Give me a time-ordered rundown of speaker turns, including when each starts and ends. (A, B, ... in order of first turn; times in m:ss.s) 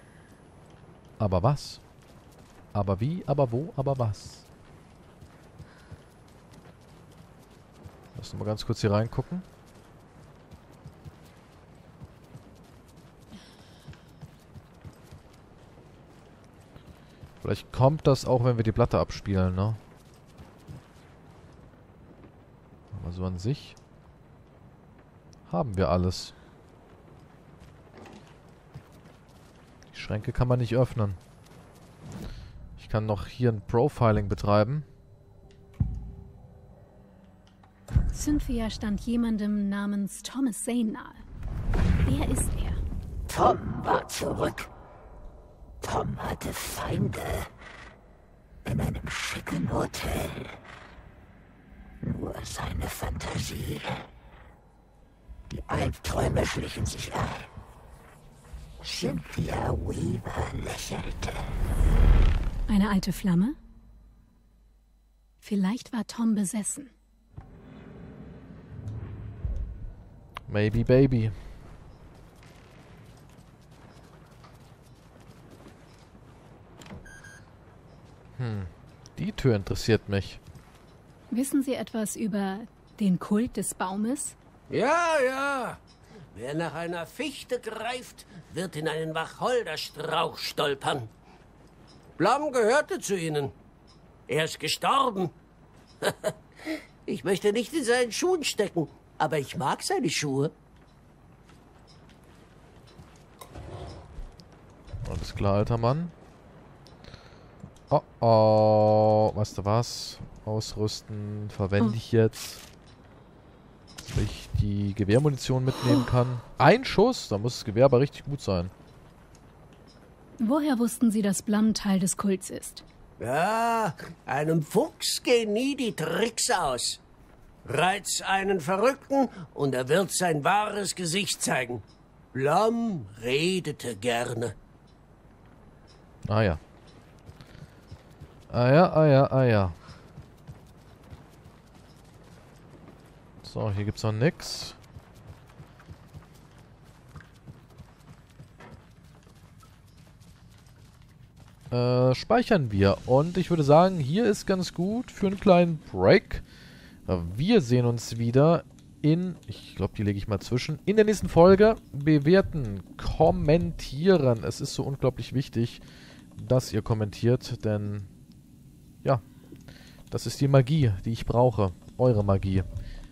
0:01.2-0:01.8 A
0:02.7-0:04.4 A
0:08.2-0:09.4 A
0:17.4-0:19.8 A
0:22.9-0:23.8 A
0:25.5-0:26.3 A
0:29.9-0:31.2 A
0:32.8-0:34.8 A
0:38.1-0:41.2 B
0:42.0-0:42.8 B
0:43.3-0:44.7 C
0:45.8-0:47.5 C
0:48.6-0:50.6 C
0:52.0-0:54.1 C
0:55.5-0:57.5 C
0:58.8-1:01.6 C
1:02.7-1:03.6 B
1:05.4-1:06.9 B
1:10.5-1:11.3 A
1:18.4-1:20.4 A
1:21.3-1:24.4 B
1:24.7-1:25.8 D
1:26.3-1:31.1 D
1:32.2-1:33.5 D
1:34.3-1:35.3 D
1:36.0-1:40.5 D
1:45.0-1:46.1 A
1:47.9-1:52.6 A
1:54.0-1:58.7 A
2:00.4-2:02.8 B
2:03.2-2:07.0 D
2:07.6-2:14.5 D
2:16.3-2:16.6 A
2:18.5-2:19.8 A
2:23.4-2:24.8 A
2:31.7-2:36.4 A
2:37.1-2:45.8 A
2:46.4-2:48.1 A
2:50.1-2:52.6 A